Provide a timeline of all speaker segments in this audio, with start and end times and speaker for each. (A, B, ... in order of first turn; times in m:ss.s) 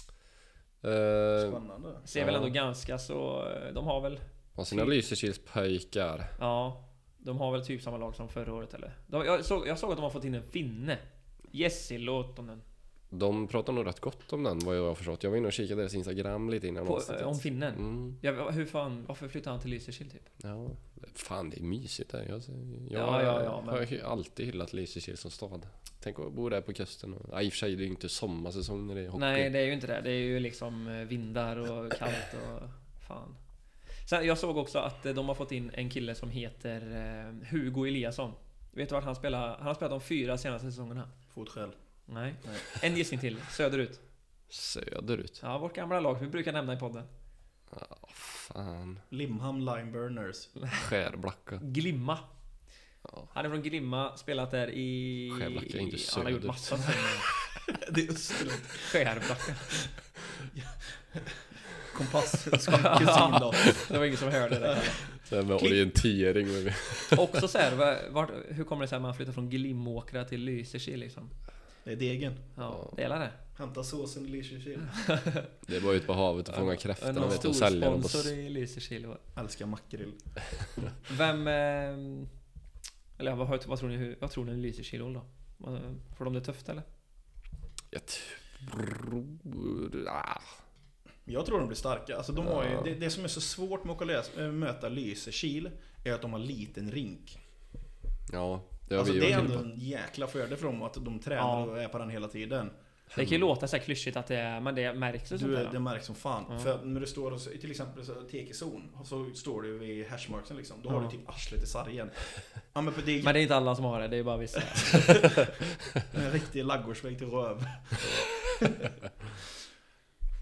0:00.8-0:01.6 A
0:01.4-0:02.1 B
0:02.1-0:04.9 C
0:02.2-0:02.6 A
0:04.6-0:06.4 A
0:06.4-0:12.6 C
0:13.1-0:18.2 A
0:16.8-0:20.3 C
0:20.4-0:29.5 A
0:22.9-0:23.9 C
0:29.2-0:33.4 C
0:34.1-0:41.1 C
0:41.3-0:41.8 B
0:42.1-0:44.0 C
0:44.5-0:45.4 A
0:45.4-0:47.1 C
0:47.7-0:49.0 A
0:49.1-0:50.5 B
0:50.7-0:51.6 A
0:51.6-0:52.3 C
0:53.3-0:57.3 C
0:55.3-0:57.1 A
0:57.7-0:59.9 B
0:58.8-0:59.7 C
1:00.5-1:03.9 B
1:02.7-1:05.7 C
1:04.6-1:05.0 B
1:05.1-1:07.4 A
1:07.1-1:11.3 C
1:11.8-1:12.5 B
1:12.6-1:13.4 C
1:12.7-1:12.9 A
1:13.6-1:15.0 B
1:14.8-1:15.6 C
1:15.6-1:18.3 A
1:16.5-1:19.2 C
1:17.1-1:17.5 B
1:19.3-1:20.2 B
1:21.1-1:22.3 C
1:23.2-1:26.8 C
1:27.9-1:30.6 A
1:31.3-1:37.4 B
1:32.4-1:32.9 A
1:38.3-1:39.6 A
1:39.0-1:42.7 B
1:41.4-1:41.7 C
1:43.1-1:43.4 A
1:43.2-1:45.8 C
1:45.3-1:53.4 B
1:53.2-1:55.5 C
1:54.8-1:55.4 B
1:56.1-1:58.9 B